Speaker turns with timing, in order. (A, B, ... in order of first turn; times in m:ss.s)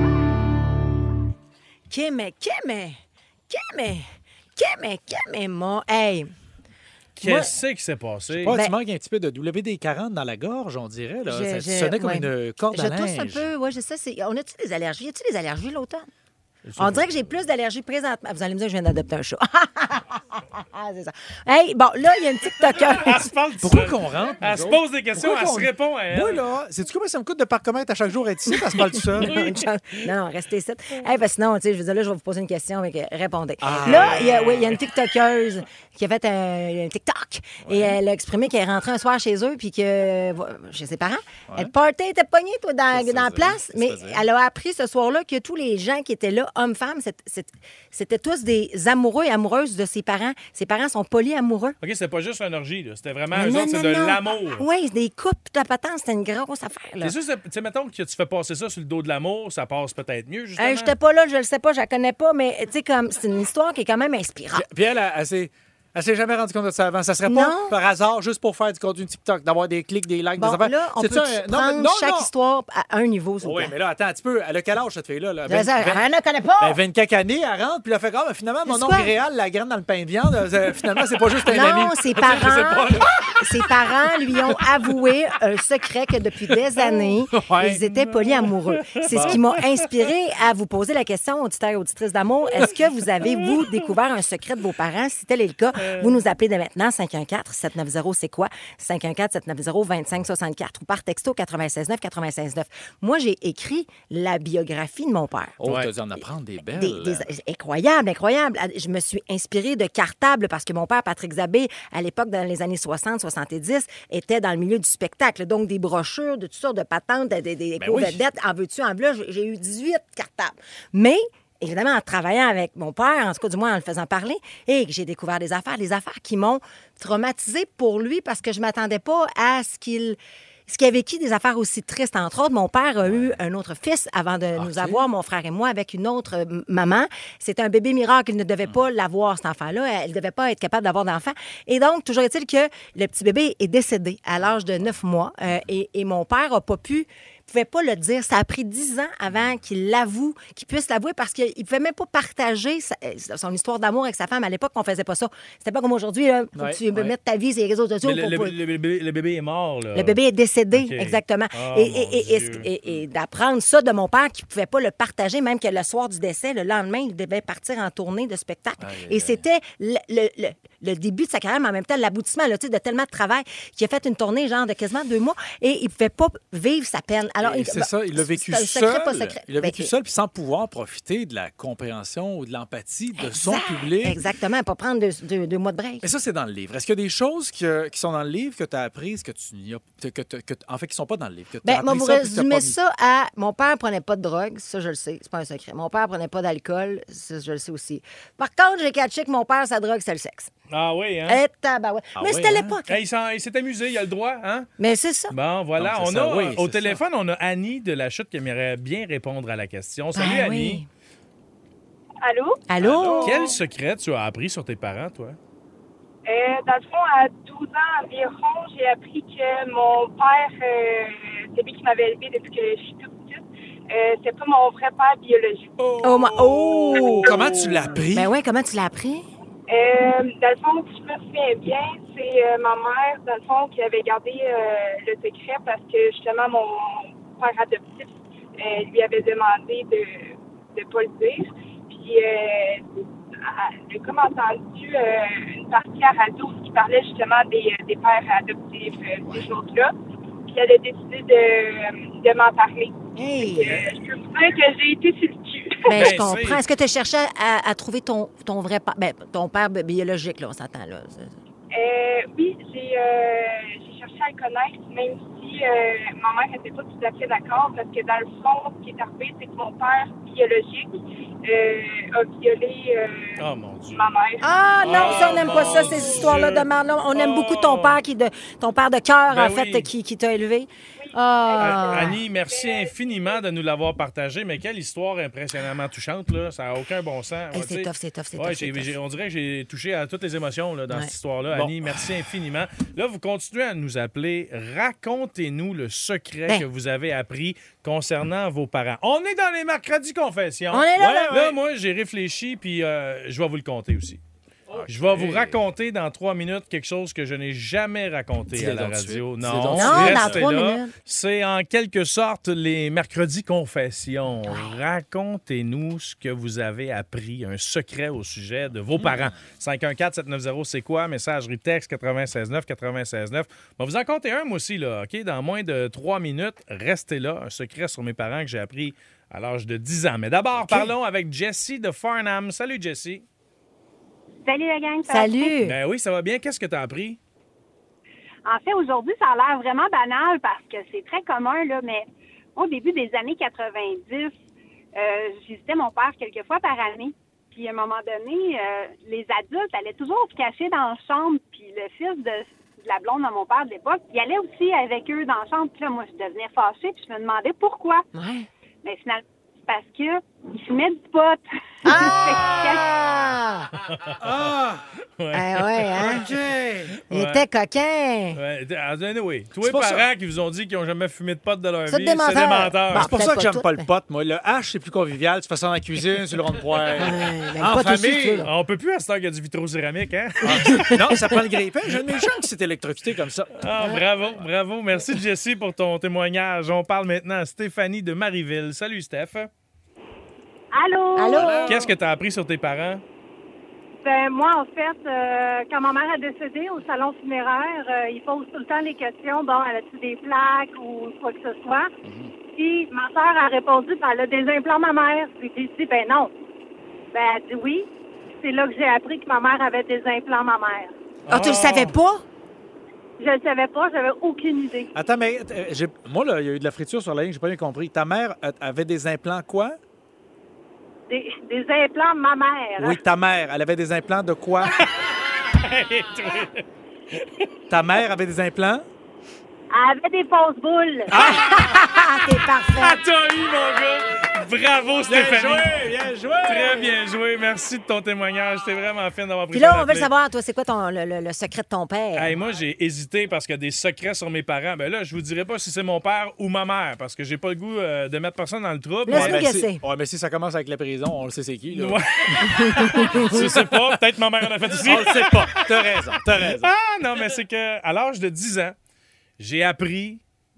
0:01.9-0:06.3 A
0:07.2-0:08.6 B
0:07.2-0:07.5 A
0:08.3-0:13.5 C
0:08.5-0:08.8 A
0:11.3-0:16.1 A
0:16.7-0:17.1 B
0:16.8-0:23.3 A
0:22.9-0:26.4 B
0:23.6-0:29.4 C
0:28.5-0:51.8 A
0:33.6-0:34.8 C
0:37.6-0:38.0 C
0:42.9-0:44.2 C
0:51.8-0:54.6 B
0:53.3-0:57.2 A
0:57.0-1:00.9 B
1:00.6-1:04.7 A
1:04.5-1:12.3 C
1:07.3-1:07.8 A
1:10.4-1:13.7 A
1:13.4-1:16.0 C
1:15.5-1:16.8 A
1:16.6-1:23.3 C
1:18.7-1:19.1 A
1:21.5-1:45.6 A
1:27.3-1:27.8 C
1:28.0-1:29.5 B
1:29.1-1:29.4 C
1:35.8-1:36.2 B
1:45.6-1:47.3 C
1:46.7-2:38.6 A
1:57.8-1:58.2 C
2:13.0-2:13.4 C
2:14.6-2:15.0 C
2:36.6-2:37.1 C
2:38.0-2:40.2 B
2:40.0-2:59.9 A
2:40.7-2:42.7 B
2:48.8-2:49.4 C
2:57.4-3:04.2 C
3:03.2-3:06.0 A
3:06.0-3:12.8 C
3:11.6-3:20.5 A
3:20.7-3:21.4 B
3:21.3-3:23.0 A
3:22.2-3:22.8 C
3:22.9-3:24.7 B
3:24.8-3:25.3 A
3:25.3-3:30.8 B
3:25.8-3:27.0 C
3:30.2-3:30.9 A
3:32.2-3:32.6 D
3:32.7-3:33.4 A
3:32.8-3:33.5 C
3:33.2-3:35.4 B
3:36.3-3:45.7 D
3:45.8-3:47.9 B
3:46.0-3:47.4 A
3:46.8-3:48.3 C
3:48.2-3:49.3 A
3:49.7-4:09.9 D
4:10.4-4:16.0 D
4:13.2-4:13.8 A
4:15.9-4:21.4 A
4:15.9-4:16.6 B
4:21.7-4:33.4 D
4:33.4-4:34.1 B
4:33.9-4:35.8 D
4:34.4-4:42.2 A
4:34.8-4:38.0 B
4:39.3-4:39.9 B
4:41.0-4:43.4 D
4:41.6-5:04.2 B
4:47.5-4:49.0 A
4:51.5-4:52.1 C
5:00.7-5:01.4 A
5:01.0-5:01.6 C
5:04.7-5:05.6 C
5:04.9-5:33.2 B
5:08.5-5:10.5 C
5:09.7-5:10.9 A
5:14.5-5:14.7 A
5:19.0-5:19.3 C
5:30.6-5:30.9 A
5:34.4-5:35.6 E
5:35.1-5:35.8 A
5:35.6-5:37.2 B
5:38.5-5:44.3 E
5:45.0-5:58.0 E
5:58.1-5:58.5 A
5:58.8-6:02.9 E
6:01.8-6:03.7 A
6:01.9-6:02.8 C
6:03.8-6:04.2 B
6:04.2-6:04.9 C
6:05.2-6:06.2 B
6:05.3-6:06.3 A
6:06.0-6:07.0 C
6:07.1-6:07.4 B
6:07.1-6:08.4 A
6:08.4-6:13.1 B
6:09.6-6:10.1 C
6:11.9-6:13.9 A
6:12.9-6:18.5 C
6:17.0-6:18.5 A
6:18.4-6:21.0 B
6:20.4-6:23.6 C
6:20.6-6:21.3 A
6:23.6-6:29.5 B
6:30.7-6:31.8 E
6:31.2-6:31.8 A
6:31.4-6:31.8 C
6:31.7-6:33.0 B
6:34.0-6:41.9 E
6:42.0-6:42.3 C
6:42.5-6:46.3 E
6:47.1-6:47.9 E
6:48.4-6:50.9 E
6:51.3-6:51.9 B
6:51.3-6:52.2 A
6:53.2-6:54.9 E
6:54.9-6:59.8 C
7:01.1-7:03.0 E
7:02.8-7:04.8 C
7:04.7-7:07.5 B
7:07.7-7:08.8 C
7:09.7-7:11.1 E
7:11.1-7:11.8 C
7:11.1-7:13.0 A
7:12.8-7:15.8 B
7:15.1-7:16.9 C
7:16.5-7:20.1 B
7:19.5-7:22.3 A
7:22.2-7:29.4 B
7:29.1-7:29.8 A
7:29.1-7:33.8 C
7:31.7-7:35.7 B
7:32.6-7:33.4 A
7:34.7-7:36.7 C
7:36.6-7:38.8 B
7:39.4-7:40.2 B